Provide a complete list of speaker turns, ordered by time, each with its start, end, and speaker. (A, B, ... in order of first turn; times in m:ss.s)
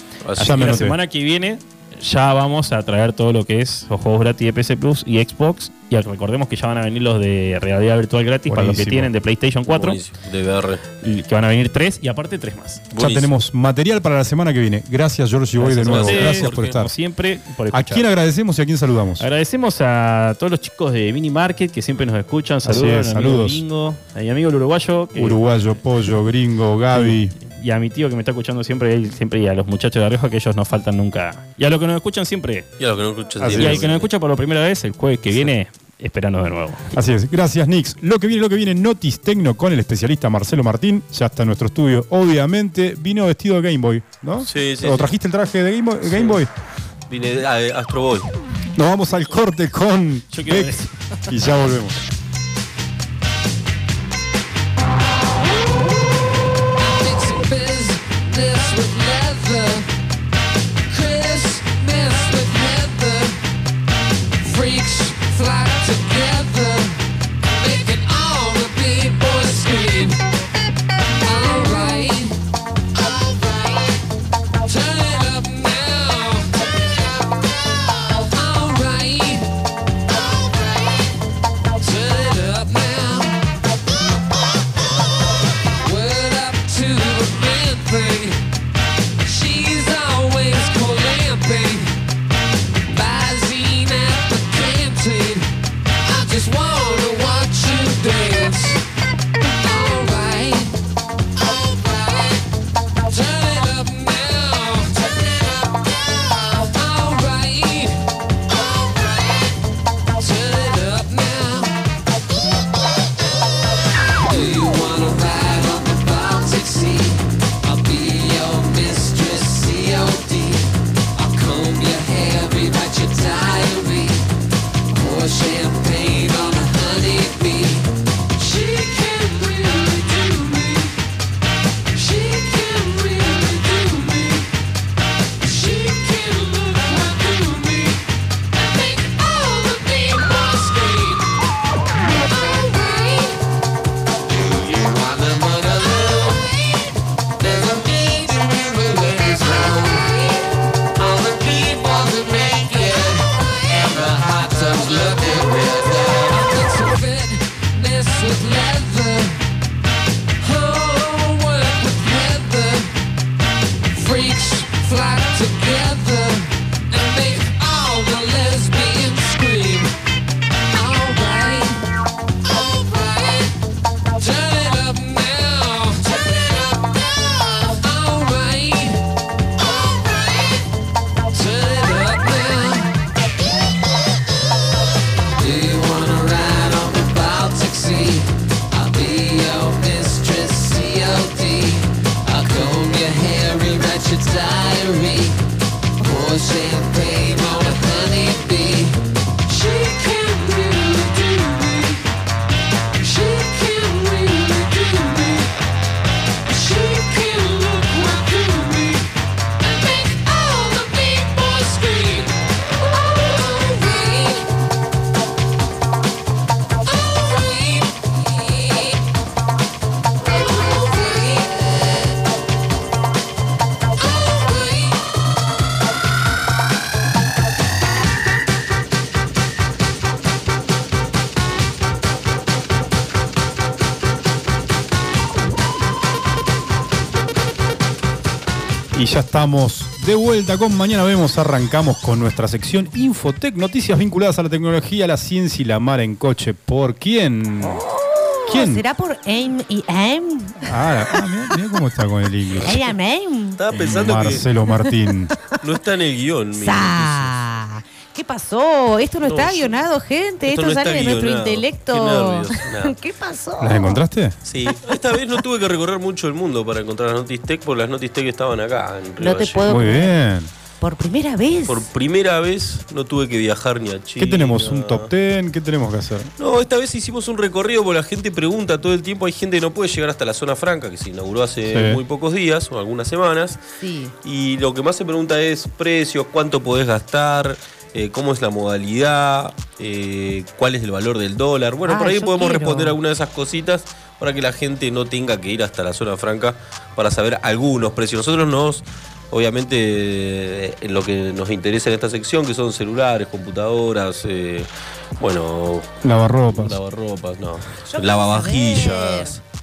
0:00.2-0:00.8 A
0:00.4-0:01.0 B
0:00.4-0:10.0 C
0:08.5-0:09.1 B
0:09.7-0:10.8 A
0:11.0-0:12.8 C
0:12.9-0:13.3 A
0:13.0-0:16.9 B
0:15.6-0:18.0 C
0:15.8-0:16.8 A
0:17.7-0:19.2 B
0:19.2-0:25.5 C
0:22.6-0:23.6 B
0:25.2-0:27.3 B
0:26.9-0:32.7 C
0:32.8-0:34.1 A
0:33.4-0:33.9 B
0:33.5-0:36.9 C
0:36.9-0:46.5 B
0:44.4-0:45.1 A
0:46.1-0:46.4 A
0:47.1-0:48.3 A
0:48.8-0:52.0 B
0:50.3-0:50.9 C
0:56.8-0:59.9 D
1:00.9-1:03.4 D
1:04.4-1:10.2 D
1:11.2-1:12.4 D
1:13.0-1:14.0 D
1:14.6-1:19.5 D
1:20.3-1:21.2 D
1:21.8-1:23.4 D
1:25.8-1:28.4 D
1:29.2-1:32.0 D
1:32.9-1:35.5 D
1:36.0-1:38.8 D
1:39.6-1:40.7 D
1:41.4-1:42.4 D
1:43.0-1:49.6 D
1:50.2-1:51.7 D
1:54.2-2:00.6 D
2:01.2-2:04.2 D
2:04.9-2:10.9 D
2:11.9-2:14.5 D
2:15.4-2:18.0 D
2:18.6-2:21.3 D
2:22.3-2:23.4 D
2:24.3-2:26.9 D
2:27.4-2:39.4 D
2:40.4-2:42.9 D
2:43.9-2:49.9 D
2:50.7-2:51.8 D
2:52.5-2:53.5 D
2:54.2-2:59.0 D
2:59.6-3:00.7 D
3:01.3-3:02.9 D
3:05.4-3:15.4 D
3:16.0-3:22.0 D
3:23.0-3:25.5 D
3:26.5-3:29.1 D
3:29.6-3:34.5 D
3:36.8-3:39.0 D
3:40.2-3:42.2 D
3:44.0-3:45.0 D
3:58.9-4:07.8 B
4:07.6-4:11.2 E
4:08.5-4:08.8 B
4:10.6-4:12.9 B
4:12.6-4:13.6 E
4:13.6-4:14.5 A
4:13.7-4:15.3 B
4:14.7-4:14.9 E
4:15.6-4:17.3 A
4:16.6-4:24.0 E
4:19.2-4:19.8 A
4:20.5-4:23.0 A
4:23.6-4:24.4 B
4:24.4-4:29.8 A
4:29.2-4:30.2 E
4:29.7-4:30.5 B
4:30.8-4:31.9 E
4:31.7-4:35.1 A
4:34.2-4:36.3 B
4:36.4-4:43.6 A
4:41.7-4:42.0 B
4:43.8-4:44.1 E
4:44.2-5:05.9 A
4:51.9-4:53.0 E
5:06.0-5:06.8 B
5:06.5-5:09.4 A
5:07.9-5:09.4 E